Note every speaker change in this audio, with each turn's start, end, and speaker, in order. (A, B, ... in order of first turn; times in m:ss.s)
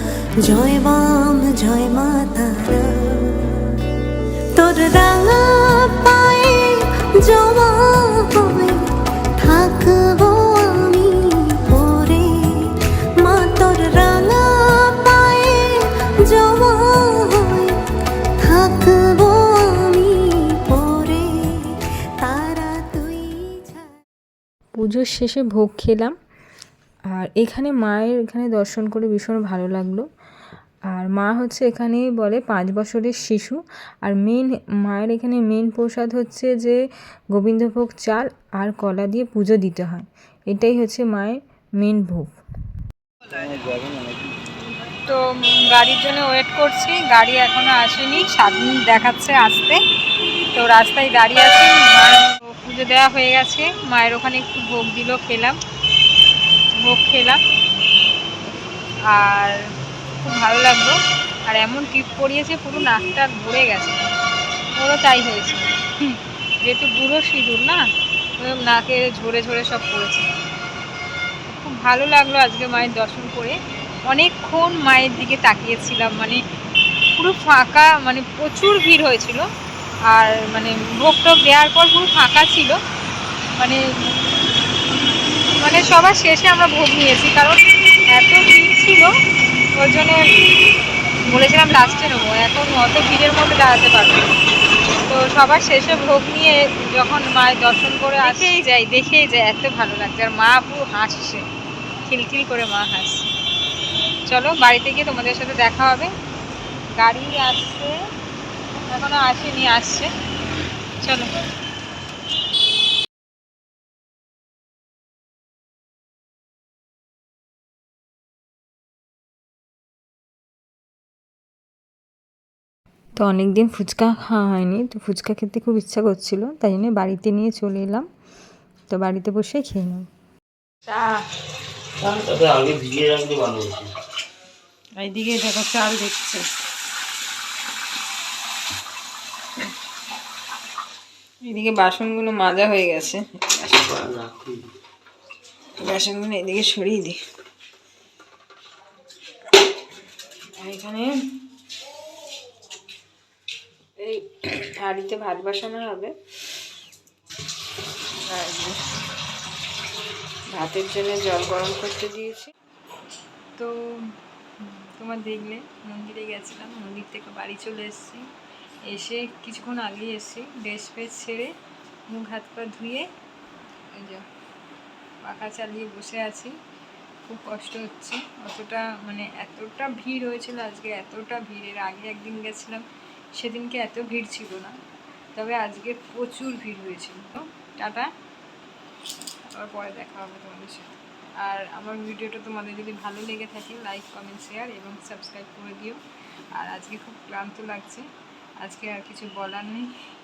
0:00.4-0:03.8 A
0:04.5-0:17.8 A
0:18.4-0:23.9 A
0:24.8-0:26.1 B
0:27.2-0:30.1 B
0:30.9-0:36.8 B
0:37.3-0:42.3 B
0:43.4-0:44.3 C
0:45.1-0:49.8 B
0:50.5-0:55.6 B
0:56.8-0:57.4 B
0:59.1-0:59.6 B
1:00.2-1:01.0 B
1:01.5-1:04.1 B
1:04.8-1:05.8 B
1:06.6-1:07.8 B
1:08.4-1:10.3 B
1:11.5-1:13.6 B
1:14.1-1:16.4 B
1:17.2-1:19.5 B
1:20.1-1:22.8 B
1:25.6-1:27.6 B
1:28.1-1:29.1 B
1:29.8-1:30.2 B
1:31.3-1:34.2 B
1:35.1-1:41.4 B
1:42.1-1:43.3 B
1:44.3-1:46.1 B
1:47.0-1:47.9 B
1:48.9-1:50.1 B
1:51.0-1:51.3 B
2:03.2-2:08.1 B
2:08.9-2:10.0 B
2:10.9-2:11.2 B
2:12.0-2:13.9 C
2:15.0-2:16.4 B
2:21.4-2:23.8 B
2:23.9-2:24.6 C
2:25.8-2:27.2 B
2:30.6-2:31.1 B
2:34.0-2:36.1 B
2:38.3-2:38.8 B
2:40.5-2:42.5 B
2:44.6-2:48.2 B
2:48.9-2:51.5 B
2:52.1-2:53.1 B
2:53.9-2:54.2 B
2:55.2-2:56.6 B
2:57.3-3:02.8 B
3:03.4-3:04.8 B
3:05.4-3:08.1 B
3:09.5-3:10.9 B
3:11.4-3:16.0 B
3:16.6-3:18.0 B
3:18.6-3:19.9 B